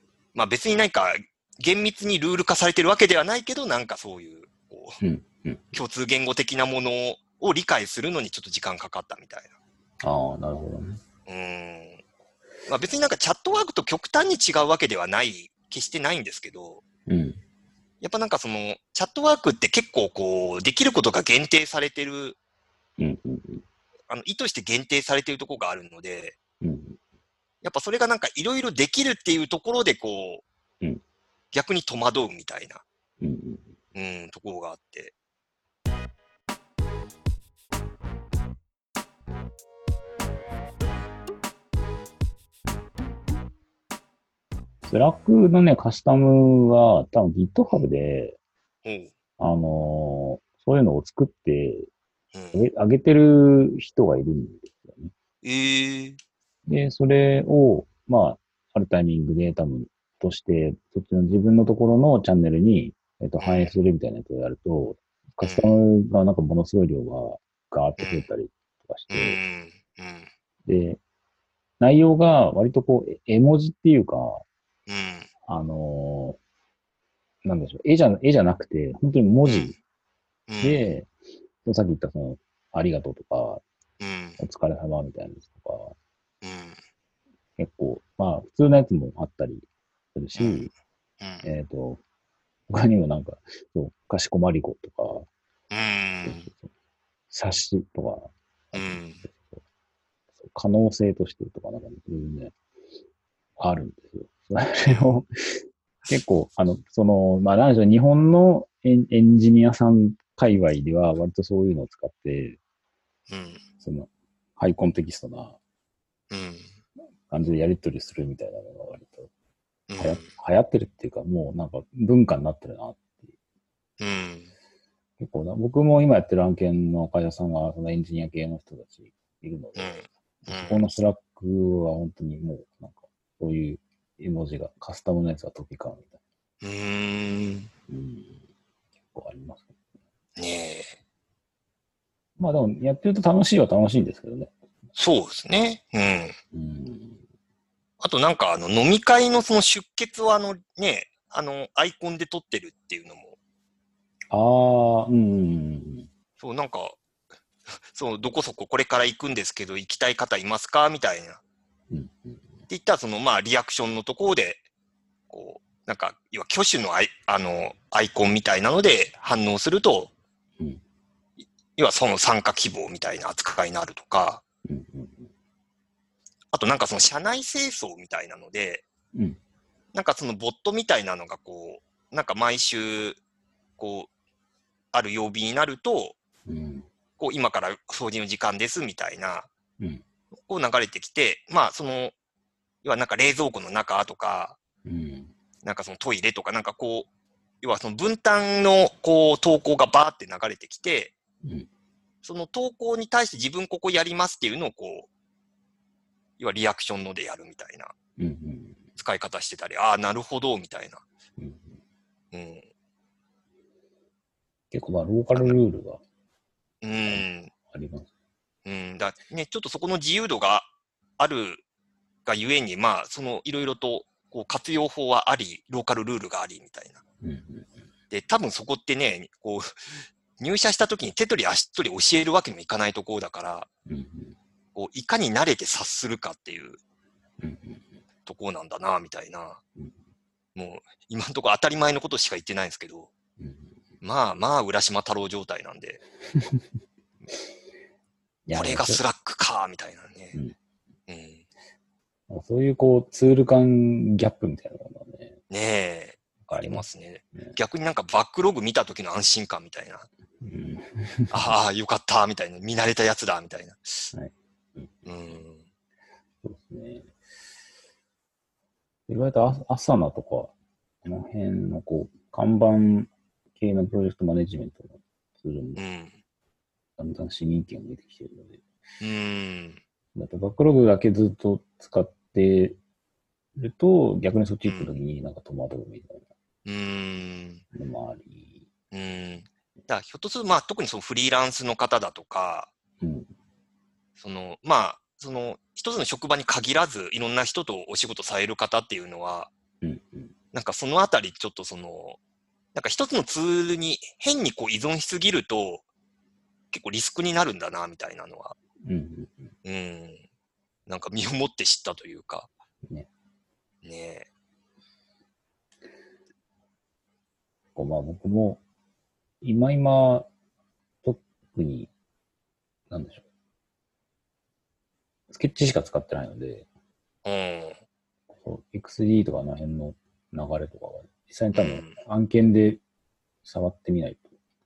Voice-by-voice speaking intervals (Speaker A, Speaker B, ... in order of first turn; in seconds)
Speaker A: 0.3-5.0, 5.7-9.5, 11.3-12.0, 12.7-16.8, 18.0-22.4, 24.1-26.4, 27.6-30.4, 31.5-32.8, 33.9-35.1, 48.8-49.1, 52.3-52.6, 55.4-56.2, 63.4-63.7, 65.4-65.8, 68.0-68.3, 69.1-70.3, 74.9-75.3, 79.4-79.7, 80.5-81.0, 84.0-84.4, 86.4-86.8, 90.3-91.5, 95.7-96.5, 98.7-99.2, 104.8-105.2, 113.3-113.6, 116.3-116.7, 119.9-120.3, 124.0-124.5, 129.8-130.9, 136.6-137.7, 140.4-140.9, 144.9-146.3, 148.0-153.3, 156.4-157.0, 157.8-161.4, 162.7-164.6, 165.3-170.1, 171.8-174.4, 176.5-178.8, 179.9-183.2, 183.8-184.1, 184.9-186.2, 187.2-189.5, 190.4-192.1, 192.8-194.6, 195.6-197.1, 197.6-201.1, 202.2-205.1, 206.4-207.9, 209.0-211.0, 212.3-212.6, 216.8-217.5, 218.6-221.6, 222.2-227.0, 228.1-233.7, 234.7-236.8, 238.2-239.6, 240.5-243.1, 244.0-246.0, 248.5-250.3, 251.1-251.4, 255.5-260.1, 261.3-264.1, 265.0-265.6, 275.8-276.1, 279.0-279.8, 284.6-285.0, 286.6-287.6, 288.9-292.7, 294.2-299.5, 300.5-302.2, 302.7-305.8, 306.7-308.5, 309.6-310.2, 310.9-312.5, 313.8-314.3, 327.2-327.8, 331.5-332.0
Speaker B: 5.0-5.7, 10.0-11.0, 17.1-17.4, 23.0-23.6, 26.6-27.0, 33.2-33.7, 44.8-48.4, 49.4-51.9, 52.5-55.1, 56.7-69.4, 70.7-71.0, 71.8-74.4, 75.5-76.4, 77.4-79.8, 80.6-83.6, 84.4-85.9, 87.6-90.7, 91.4-92.0, 92.7-95.3, 96.2-96.7, 97.3-99.6, 100.4-102.5, 103.6-112.6, 113.8-115.6, 117.3-119.3, 120.0-123.2, 125.2-136.2, 137.9-138.4, 139.1-139.8, 142.4-144.5, 146.5-147.2, 154.3-156.1, 161.9-162.4, 174.6-175.3, 186.5-186.9, 194.8-195.3, 208.2-208.8, 211.4-211.8, 214.7-216.0, 217.1-218.1, 227.2-227.7, 233.9-234.3, 237.4-237.8, 243.4-243.7, 246.3-246.6, 248.5-249.0, 252.3-255.4, 256.4-257.5, 260.4-261.5, 264.1-265.0, 266.4-267.1, 269.1-270.5, 271.0-275.8, 277.0-278.6, 280.1-282.8, 283.6-286.2, 287.7-288.6, 293.0-293.3, 299.8-300.3, 308.8-309.5, 317.7-318.6, 319.4-320.3, 321.0-321.9, 322.9-323.2, 325.3-326.7, 328.3-332.8, 333.4-334.3